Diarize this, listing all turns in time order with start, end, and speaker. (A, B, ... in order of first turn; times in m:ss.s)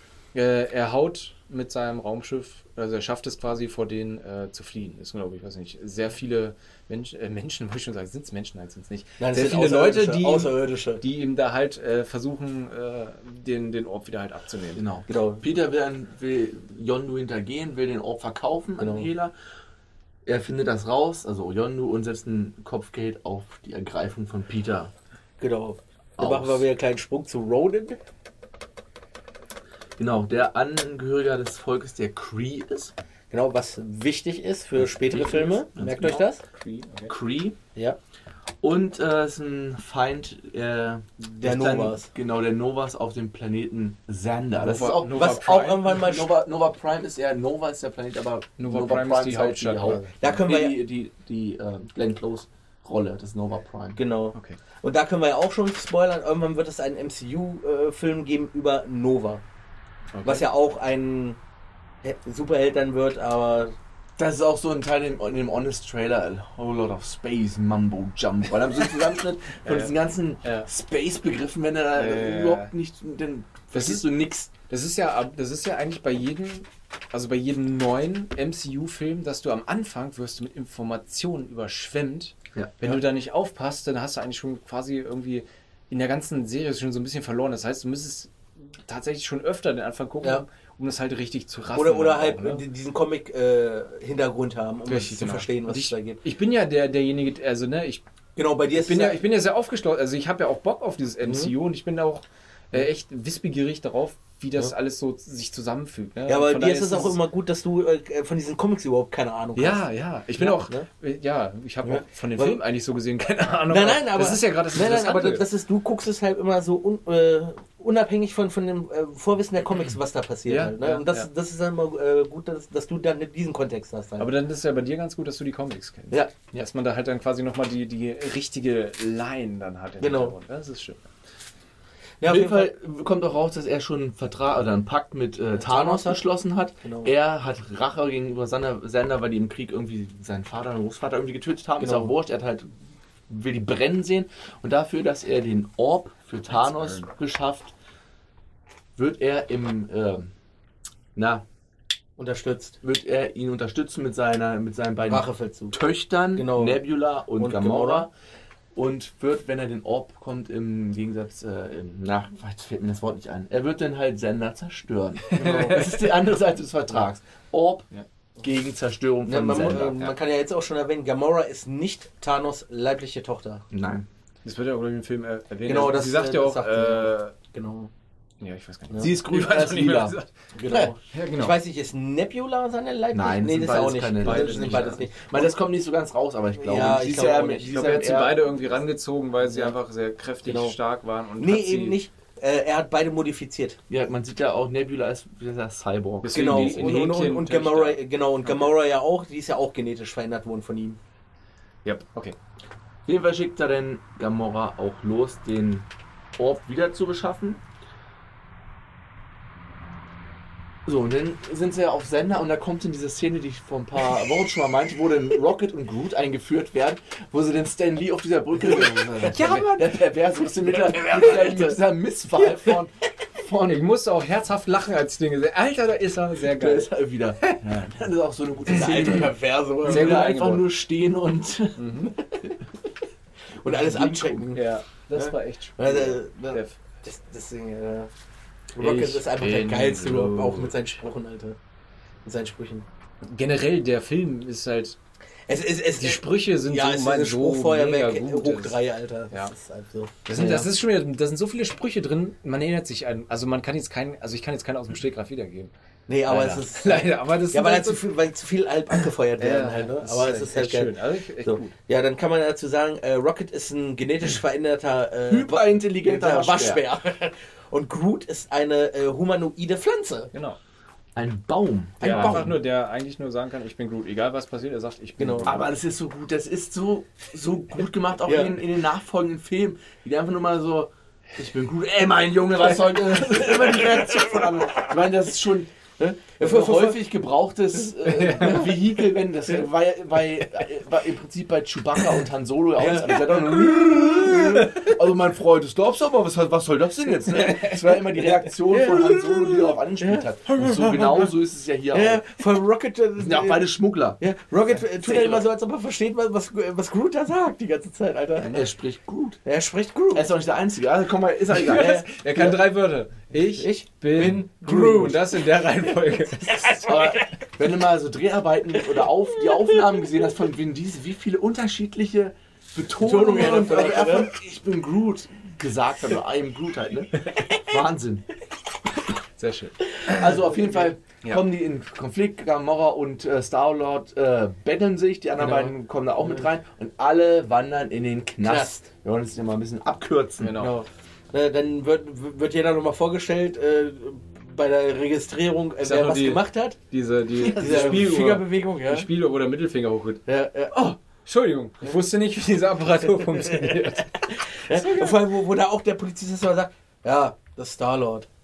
0:00.3-0:14.8 A
0:09.2-0:11.0 B
0:14.8-0:19.3 C
0:15.1-0:15.4 B
0:18.8-0:19.1 B
0:20.2-0:24.9 C
0:25.4-0:28.0 B
0:26.2-0:26.6 C
0:30.0-0:32.9 C
0:33.3-0:36.4 B
0:34.8-0:36.2 C
0:36.5-0:37.1 A
0:37.1-0:37.6 C
0:38.6-0:54.0 C
0:41.2-0:42.1 B
0:44.6-0:45.8 A
0:45.1-0:46.3 B
0:48.6-0:50.1 A
0:50.2-0:50.8 B
0:54.0-0:59.4 B
1:00.1-1:00.4 A
1:00.2-1:01.4 B
1:02.0-1:03.7 B
1:04.2-1:14.5 C
1:09.6-1:10.7 A
1:11.9-1:12.7 A
1:13.7-1:14.1 A
1:14.7-1:32.6 A
1:22.5-1:23.0 C
1:31.7-1:36.2 B
1:34.9-1:38.0 A
1:38.4-1:39.2 B
1:38.7-1:47.2 A
1:41.2-1:41.5 B
1:46.3-1:50.9 B
1:49.6-1:55.4 A
1:51.8-1:52.6 B
1:53.7-2:04.3 B
2:00.5-2:01.3 A
2:04.2-2:11.1 A
2:06.1-2:06.6 C
2:10.0-2:10.3 B
2:12.2-2:12.7 B
2:12.2-2:22.7 C
2:15.6-2:16.2 B
2:16.8-2:17.1 B
2:21.8-2:22.1 B
2:23.3-2:27.7 C
2:26.6-2:27.0 A
2:29.0-2:30.3 C
2:31.1-2:31.4 C
2:32.2-2:32.8 B
2:32.8-2:38.1 C
2:35.1-2:35.8 B
2:36.3-2:36.8 B
2:37.3-2:38.1 B
2:38.7-2:47.9 C
2:45.3-2:45.8 B
2:45.4-2:46.0 A
2:48.4-2:50.0 C
2:49.3-2:53.6 B
2:53.7-2:54.1 C
2:54.4-2:57.3 A
2:55.6-2:57.9 B
2:58.4-3:00.3 A
2:58.9-2:59.2 B
2:59.0-3:00.2 C
3:00.5-3:05.6 B
3:00.7-3:00.9 C
3:01.0-3:01.5 A
3:03.1-3:08.4 C
3:04.2-3:05.0 A
3:06.6-3:08.1 B
3:07.7-3:12.0 A
3:09.4-3:09.7 B
3:10.4-3:10.8 B
3:11.4-3:13.8 B
3:13.9-3:17.1 C
3:16.2-3:18.7 A
3:16.3-3:21.0 B
3:21.8-3:22.4 A
3:23.0-3:27.6 C
3:30.8-3:43.8 C
3:39.2-3:40.0 A
3:40.5-3:41.8 B
3:42.4-3:42.7 B
3:43.6-3:46.9 A
3:46.5-3:52.5 C
3:47.4-3:47.9 A
3:48.7-3:50.3 B
3:49.8-3:50.8 A
3:51.8-3:52.1 A
3:53.6-3:58.1 B
3:53.6-3:54.4 C
3:54.5-3:56.8 A
3:58.7-4:01.6 B
3:58.8-4:00.7 A
4:02.2-4:02.8 B
4:03.2-4:05.0 A
4:05.5-4:10.1 B
4:06.0-4:08.8 A
4:10.2-4:15.7 A
4:10.3-4:10.7 C
4:16.1-4:30.3 B
4:16.3-4:18.0 A
4:19.4-4:21.7 A
4:25.3-4:26.8 C
4:30.3-4:30.6 A
4:31.1-4:32.5 C
4:32.0-4:32.5 B
4:32.0-4:35.6 A
4:35.2-4:35.5 B
4:35.4-4:45.7 C
4:38.2-4:38.6 B
4:43.3-4:44.8 B
4:46.0-4:47.1 B
4:46.4-5:02.3 C
4:48.0-4:48.9 A
4:52.8-4:54.7 B
4:57.4-4:57.8 A
4:58.7-5:01.3 B
5:01.9-5:08.7 B
5:03.2-5:04.2 C
5:04.9-5:05.4 C
5:08.4-5:09.4 C
5:09.4-5:10.3 B
5:10.1-5:12.5 C
5:11.5-5:16.9 A
5:11.7-5:12.6 B
5:13.4-5:15.3 B
5:16.5-5:17.3 B
5:16.8-5:28.2 C
5:23.0-5:24.3 B
5:29.4-5:30.3 A
5:30.0-5:40.6 C
5:35.4-5:35.7 B
5:38.4-5:38.9 B
5:40.4-5:40.7 A
5:40.6-5:46.8 B
5:45.8-5:55.2 A
5:47.4-5:48.1 C
5:47.6-5:49.1 B
5:50.3-5:50.9 B
5:53.3-5:58.3 B